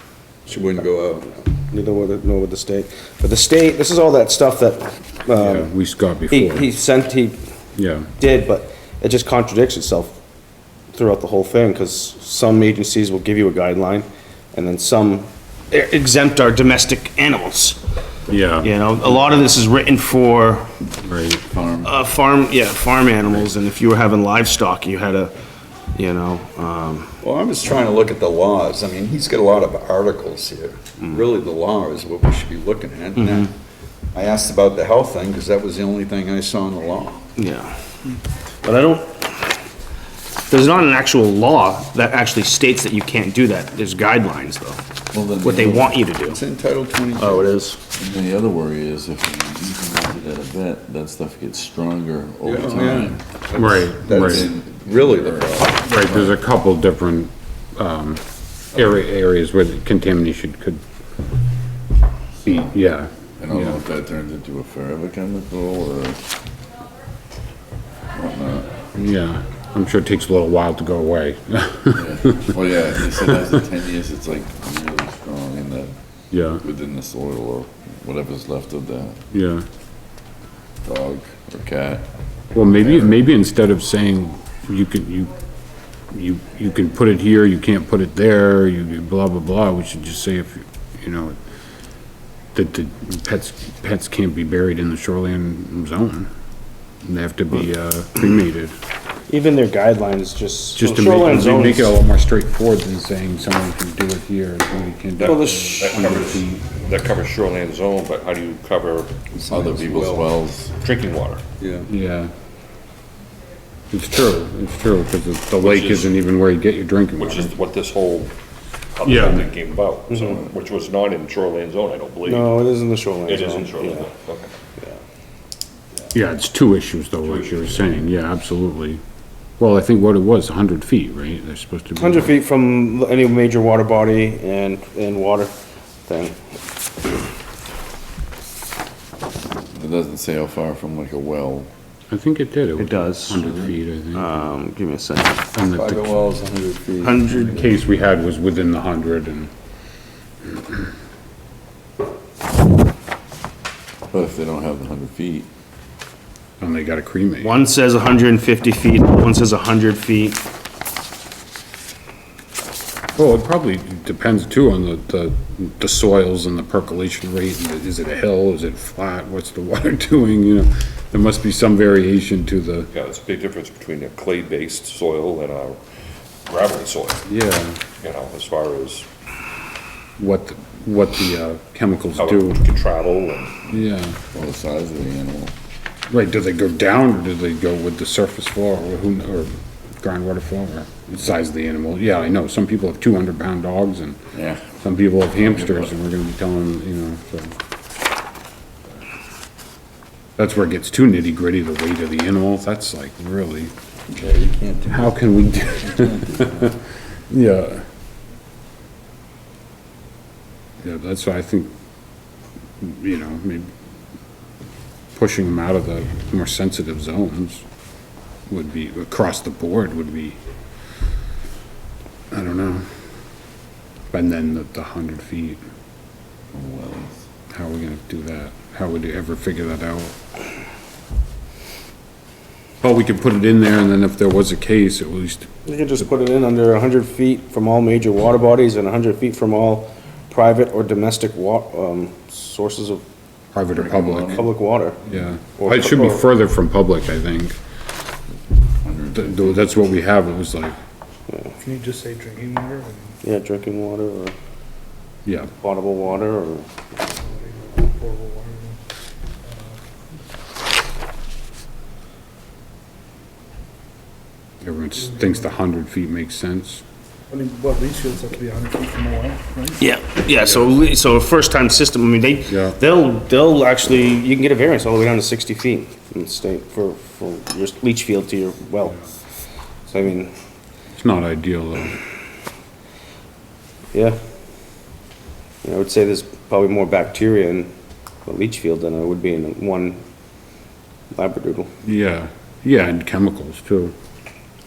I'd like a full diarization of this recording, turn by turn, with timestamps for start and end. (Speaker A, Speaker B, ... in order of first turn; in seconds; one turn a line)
Speaker A: 0.5-1.3
Speaker B: 1.5-5.7
Speaker C: 5.4-6.6
Speaker B: 6.3-7.4
Speaker C: 7.8-8.1
Speaker B: 8.2-10.2
Speaker B: 10.9-17.8
Speaker C: 18.3-18.7
Speaker B: 18.6-20.7
Speaker C: 21.0-21.4
Speaker D: 21.5-22.0
Speaker B: 21.8-25.3
Speaker B: 25.9-27.2
Speaker A: 27.2-33.5
Speaker B: 33.2-33.5
Speaker A: 34.1-37.2
Speaker B: 37.4-37.8
Speaker B: 38.6-39.5
Speaker B: 40.5-44.8
Speaker D: 45.1-46.0
Speaker B: 45.4-46.4
Speaker A: 46.2-47.5
Speaker B: 47.2-47.8
Speaker D: 47.9-53.2
Speaker A: 52.4-55.9
Speaker C: 53.5-54.5
Speaker D: 54.1-56.4
Speaker C: 55.7-58.2
Speaker C: 58.7-60.8
Speaker C: 62.4-63.8
Speaker D: 63.4-66.2
Speaker D: 68.1-68.8
Speaker C: 68.9-72.5
Speaker D: 71.9-75.9
Speaker C: 76.3-76.6
Speaker D: 76.5-79.2
Speaker C: 79.3-79.7
Speaker D: 80.8-82.0
Speaker C: 82.5-85.3
Speaker D: 82.6-83.2
Speaker C: 86.1-91.4
Speaker C: 92.5-96.3
Speaker C: 97.0-98.7
Speaker B: 99.3-101.9
Speaker C: 100.8-106.7
Speaker E: 105.2-109.3
Speaker B: 105.2-106.1
Speaker A: 109.3-110.2
Speaker D: 109.5-110.7
Speaker E: 110.8-111.4
Speaker A: 111.6-111.9
Speaker C: 111.9-112.3
Speaker C: 113.9-117.5
Speaker E: 115.6-116.2
Speaker E: 117.2-118.3
Speaker E: 119.0-122.5
Speaker C: 119.0-119.5
Speaker B: 120.1-120.4
Speaker B: 122.2-124.1
Speaker E: 123.3-124.5
Speaker C: 126.1-129.0
Speaker E: 127.2-127.9
Speaker C: 129.6-132.3
Speaker B: 131.9-135.5
Speaker B: 136.1-136.4
Speaker D: 139.7-141.7
Speaker C: 142.1-144.4
Speaker B: 142.8-143.5
Speaker B: 144.1-145.4
Speaker C: 145.5-146.2
Speaker A: 145.7-147.5
Speaker B: 147.0-147.6
Speaker C: 147.3-149.5
Speaker C: 150.5-150.8
Speaker D: 154.1-155.5
Speaker C: 156.6-157.5
Speaker B: 157.4-160.4
Speaker C: 163.2-172.9
Speaker E: 172.9-175.8
Speaker E: 176.4-177.2
Speaker C: 177.2-177.8
Speaker E: 178.0-179.1
Speaker C: 180.2-182.6
Speaker E: 182.2-183.7
Speaker C: 183.7-184.2
Speaker D: 184.3-185.5
Speaker C: 186.1-194.2
Speaker D: 194.3-195.9
Speaker C: 194.8-197.5
Speaker C: 200.4-203.7
Speaker A: 204.1-205.2
Speaker C: 204.9-207.8
Speaker A: 205.9-206.4
Speaker C: 210.8-211.7
Speaker C: 212.8-213.7
Speaker C: 215.1-217.6
Speaker C: 218.5-220.4
Speaker C: 222.3-222.8
Speaker C: 224.1-225.6
Speaker D: 226.5-227.3
Speaker C: 227.5-230.1
Speaker C: 232.8-235.5
Speaker B: 235.7-243.0
Speaker C: 243.5-244.4
Speaker D: 243.7-244.5
Speaker B: 244.3-245.0
Speaker C: 245.1-247.6
Speaker B: 245.6-246.3
Speaker D: 248.8-249.6
Speaker C: 249.1-250.8
Speaker B: 251.3-251.6
Speaker F: 251.6-253.2
Speaker B: 253.2-254.3
Speaker C: 255.2-255.5
Speaker B: 255.6-256.7
Speaker F: 257.3-258.8
Speaker C: 264.6-266.8
Speaker F: 267.3-269.8
Speaker B: 269.8-279.0
Speaker C: 272.5-272.8
Speaker B: 279.9-280.4
Speaker C: 280.9-282.0
Speaker B: 283.9-284.2
Speaker B: 285.6-287.7
Speaker B: 288.2-290.0
Speaker B: 291.1-291.7
Speaker C: 291.8-293.9